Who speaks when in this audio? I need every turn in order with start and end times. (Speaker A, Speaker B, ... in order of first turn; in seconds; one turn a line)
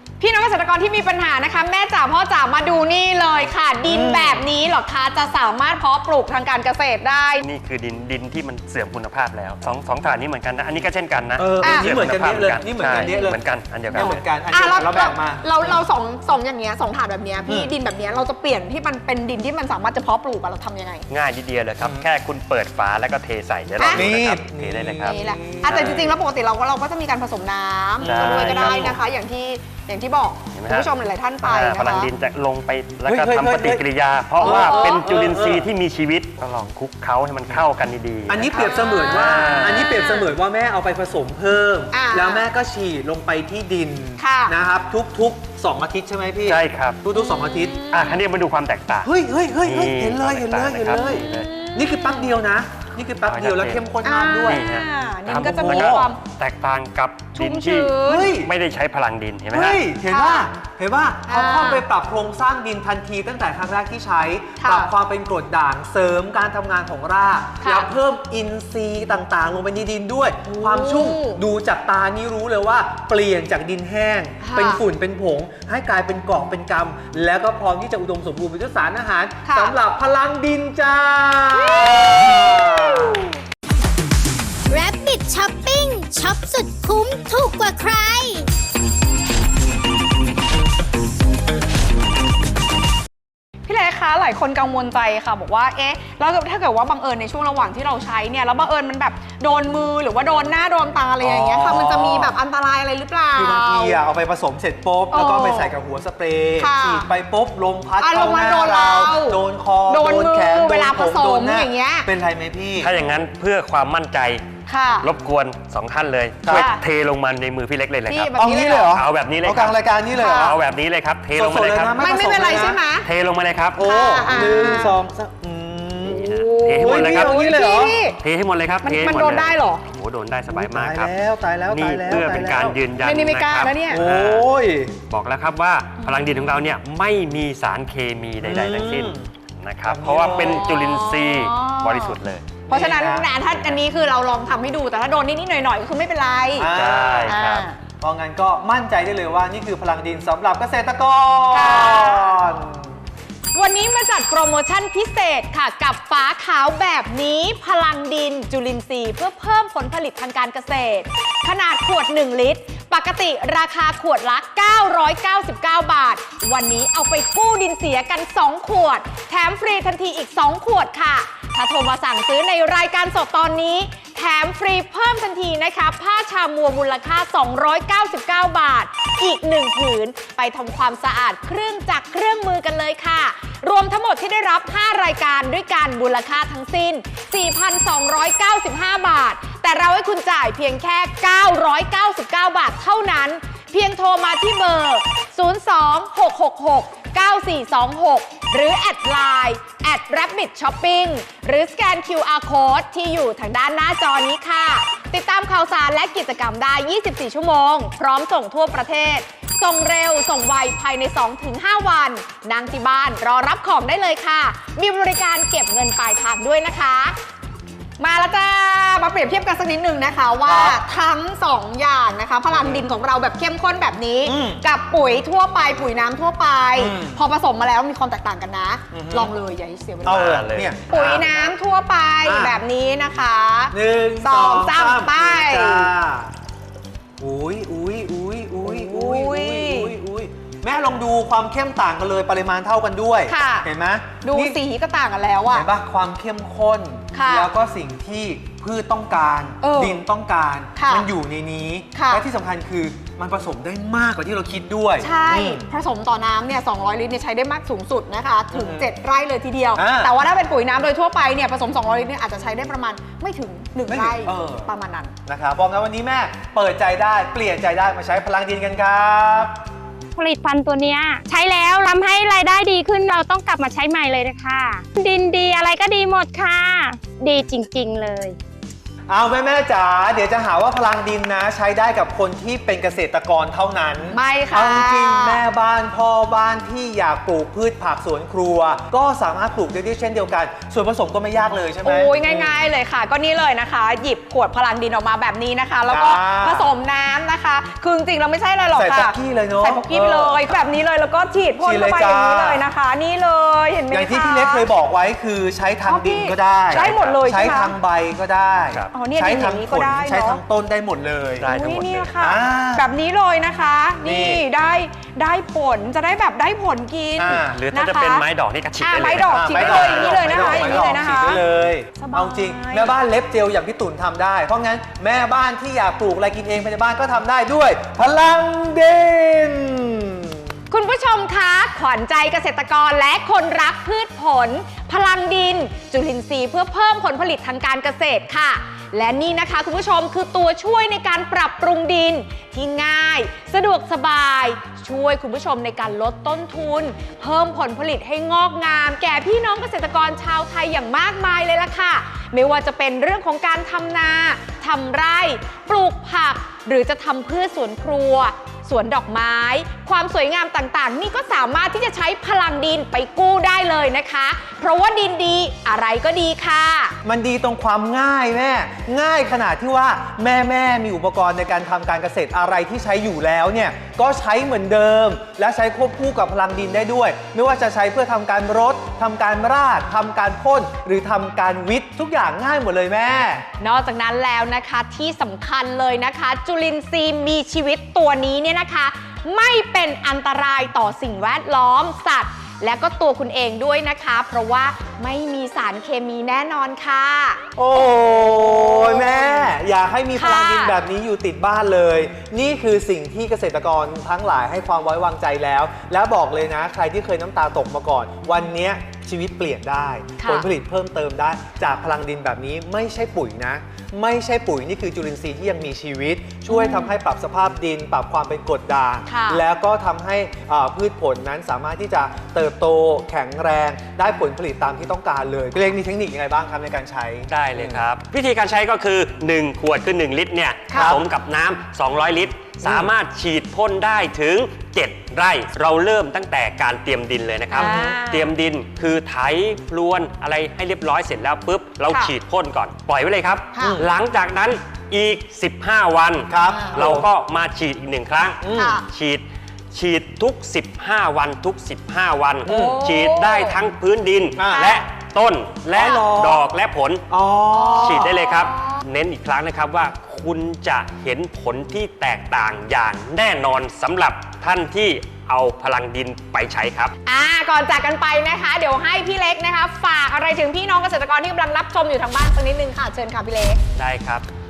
Speaker A: 0.2-7.4
Speaker B: 3.9-4.5
Speaker C: 7.4-14.2
Speaker B: 11.3-15.8
Speaker A: 11.6-11.9
Speaker A: 12.9-13.3
Speaker A: 13.9-21.1
Speaker B: 17.4-17.7
Speaker C: 21.1-26.1
Speaker B: 21.8-22.1
Speaker A: 23.8-24.1
Speaker B: 23.8-26.1
Speaker A: 25.0-32.1
Speaker B: 28.0-29.0
Speaker C: 28.0-28.9
Speaker C: 30.5-30.9
Speaker C: 31.4-40.0
Speaker B: 33.0-33.8
Speaker A: 34.4-35.0
Speaker B: 34.4-35.7
Speaker B: 38.3-47.8
Speaker A: 38.5-40.3
Speaker A: 41.9-42.4
Speaker A: 44.2-44.5
Speaker C: 46.5-47.0
Speaker A: 47.1-48.2
Speaker C: 47.9-49.1
Speaker B: 49.0-54.7
Speaker C: 49.6-51.5
Speaker A: 51.0-52.3
Speaker C: 53.2-53.9
Speaker A: 54.0-56.2
Speaker C: 54.5-59.8
Speaker B: 55.2-56.1
Speaker A: 57.3-58.3
Speaker B: 58.0-58.5
Speaker B: 59.5-83.2
Speaker A: 60.1-60.5
Speaker A: 61.3-61.8
Speaker A: 64.6-64.9
Speaker A: 67.6-67.9
Speaker A: 70.4-71.4
Speaker A: 74.4-74.8
Speaker A: 79.4-79.7
Speaker A: 81.5-83.3
Speaker D: 84.7-88.5
Speaker A: 93.7-104.0
Speaker B: 101.2-102.3
Speaker B: 103.3-112.9
Speaker A: 105.1-105.7
Speaker A: 106.6-107.1
Speaker A: 108.0-112.1
Speaker C: 112.8-114.4
Speaker A: 114.7-115.1
Speaker C: 115.0-123.8
Speaker B: 116.4-116.7
Speaker A: 116.5-116.8
Speaker A: 118.1-118.9
Speaker B: 118.3-120.6
Speaker A: 120.2-120.5
Speaker B: 121.3-122.8
Speaker A: 122.0-123.1
Speaker B: 123.8-126.3
Speaker A: 123.8-125.0
Speaker A: 126.1-128.2
Speaker C: 126.1-127.3
Speaker B: 126.8-128.0
Speaker C: 128.2-131.1
Speaker A: 128.8-129.8
Speaker B: 130.5-132.8
Speaker C: 131.7-134.5
Speaker A: 133.0-134.0
Speaker B: 133.9-134.9
Speaker C: 135.1-142.6
Speaker A: 136.0-136.5
Speaker B: 138.4-139.3
Speaker B: 139.8-140.7
Speaker A: 140.3-142.1
Speaker B: 142.7-143.3
Speaker A: 142.7-146.7
Speaker B: 146.6-147.5
Speaker C: 146.7-147.6
Speaker A: 147.2-147.8
Speaker B: 148.0-152.9
Speaker A: 151.5-152.4
Speaker A: 153.5-217.2
Speaker A: 218.0-230.3
Speaker B: 220.4-220.8
Speaker B: 222.5-222.8
Speaker B: 224.2-224.6
Speaker B: 226.7-227.2
Speaker B: 228.9-229.3
Speaker B: 230.0-231.5
Speaker C: 230.0-230.7
Speaker A: 230.9-235.9
Speaker B: 232.2-232.6
Speaker B: 233.7-236.3
Speaker B: 237.2-244.6
Speaker A: 238.6-239.9
Speaker A: 243.3-243.7
Speaker A: 244.2-245.7
Speaker B: 245.5-255.6
Speaker A: 247.1-247.5
Speaker A: 249.6-250.0
Speaker A: 250.8-251.1
Speaker A: 251.9-252.2
Speaker A: 255.0-265.1
Speaker B: 258.5-258.9
Speaker B: 259.7-260.1
Speaker B: 263.9-264.7
Speaker B: 265.3-269.5
Speaker E: 270.1-278.4
Speaker B: 279.1-292.6
Speaker A: 284.1-285.4
Speaker A: 291.8-304.7
Speaker B: 295.9-296.7
Speaker B: 298.7-300.5
Speaker B: 301.6-302.6
Speaker B: 303.9-311.5
Speaker A: 305.8-307.7
Speaker C: 306.7-307.2
Speaker A: 308.9-310.4
Speaker C: 311.4-312.1
Speaker A: 311.5-318.2
Speaker B: 312.2-312.9
Speaker B: 314.0-314.4
Speaker B: 317.2-317.6
Speaker C: 317.4-320.9
Speaker A: 318.8-321.4
Speaker B: 319.1-330.4
Speaker A: 321.9-322.9
Speaker A: 330.7-366.9
Speaker B: 367.0-383.4
Speaker A: 383.6-399.5
Speaker B: 397.6-427.8
Speaker A: 400.1-400.8
Speaker A: 410.2-410.5
Speaker A: 416.5-416.9
Speaker A: 419.1-419.4
Speaker C: 427.3-457.1
Speaker A: 430.7-430.9
Speaker B: 430.7-431.0
Speaker B: 432.6-432.9
Speaker A: 437.5-438.3
Speaker B: 437.5-438.0
Speaker A: 441.9-442.1
Speaker A: 443.5-443.8
Speaker B: 443.6-443.9
Speaker B: 446.3-447.1
Speaker A: 446.5-446.8
Speaker B: 448.4-448.8
Speaker A: 448.5-448.8
Speaker B: 452.4-452.8
Speaker A: 452.4-453.6
Speaker B: 454.4-454.8
Speaker A: 454.5-454.8
Speaker B: 455.7-456.4
Speaker B: 457.1-458.1
Speaker A: 457.5-458.8
Speaker C: 457.8-466.9
Speaker A: 467.1-473.6
Speaker C: 473.8-474.2